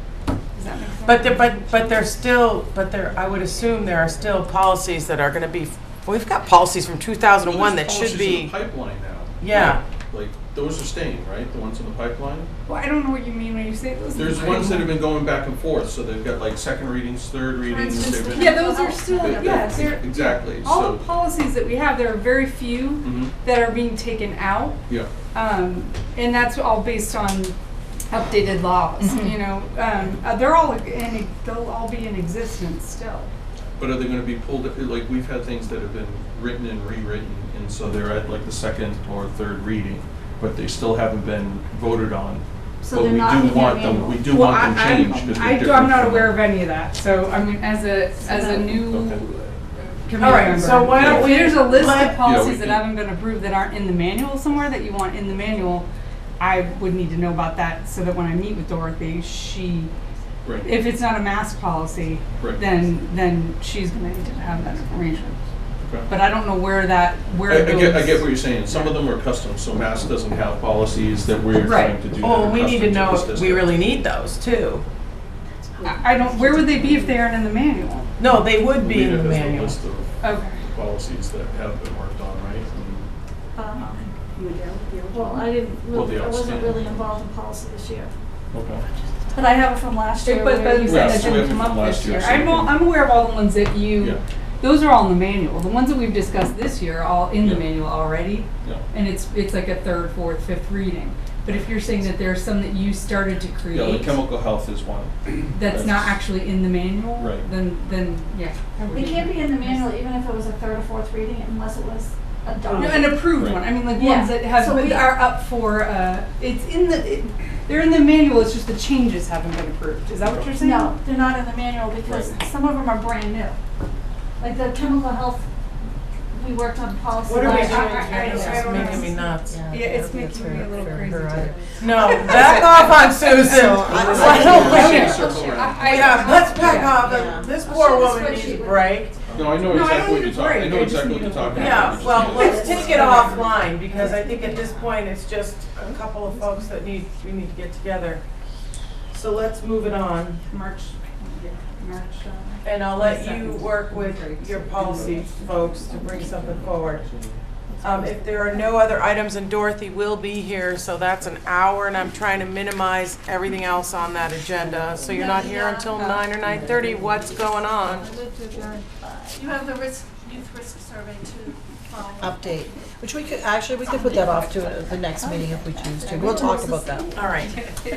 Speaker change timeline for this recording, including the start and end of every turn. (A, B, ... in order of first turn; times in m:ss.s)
0:00.5-0:02.1 A
0:01.0-0:08.5 B
0:07.4-0:12.5 C
0:09.4-0:09.8 B
0:12.7-0:14.9 A
0:14.2-0:21.0 C
0:17.6-0:19.9 D
0:18.3-0:24.8 A
0:23.0-0:23.3 C
0:25.3-0:27.6 A
0:28.1-0:33.3 A
0:33.8-0:46.4 C
0:42.8-0:44.2 D
0:44.3-0:55.9 A
0:48.3-0:48.7 D
0:48.7-0:49.3 C
0:50.2-0:52.2 B
0:50.9-0:53.0 C
0:56.4-0:59.9 A
1:00.4-1:00.8 C
1:00.6-1:05.4 A
1:02.4-1:02.7 C
1:05.8-1:06.1 C
1:06.1-1:08.2 A
1:07.5-1:13.8 C
1:11.6-1:12.0 A
1:12.2-1:14.8 B
1:15.8-1:18.1 A
1:18.2-1:19.8 B
1:18.7-1:23.1 C
1:20.2-1:20.6 A
1:23.6-1:24.0 D
1:24.3-1:25.5 A
1:25.1-1:28.1 D
1:25.9-1:27.3 C
1:28.5-1:28.8 C
1:29.3-1:31.5 D
1:30.2-1:44.2 A
1:30.8-1:32.8 C
1:34.0-1:34.2 C
1:37.4-1:37.7 C
1:43.7-1:46.2 C
1:45.5-1:50.0 A
1:47.2-1:47.5 C
1:49.0-1:53.2 D
1:52.7-2:00.9 A
1:53.3-1:53.7 C
1:53.9-1:55.1 D
2:00.2-2:00.5 C
2:00.6-2:03.6 D
2:02.0-2:02.4 C
2:04.4-2:05.5 D
2:06.3-2:09.2 D
2:07.2-2:09.6 B
2:07.4-2:17.1 A
2:09.5-2:11.6 E
2:11.8-2:19.3 B
2:13.2-2:15.0 E
2:14.0-2:16.8 C
2:14.1-2:15.7 D
2:16.7-2:19.2 D
2:17.0-2:17.5 E
2:19.3-2:23.0 C
2:19.6-2:23.5 A
2:21.5-2:28.2 B
2:21.8-2:23.5 D
2:24.0-2:24.7 E
2:29.1-2:30.4 B
2:30.5-2:35.2 A
2:32.6-2:37.0 B
2:34.9-2:35.2 C
2:35.9-2:37.4 C
2:37.8-2:48.1 B
2:45.1-2:46.6 D
2:48.0-2:52.9 D
2:52.2-2:57.1 E
2:53.9-2:54.6 D
2:55.2-2:57.5 D
2:57.1-2:57.6 B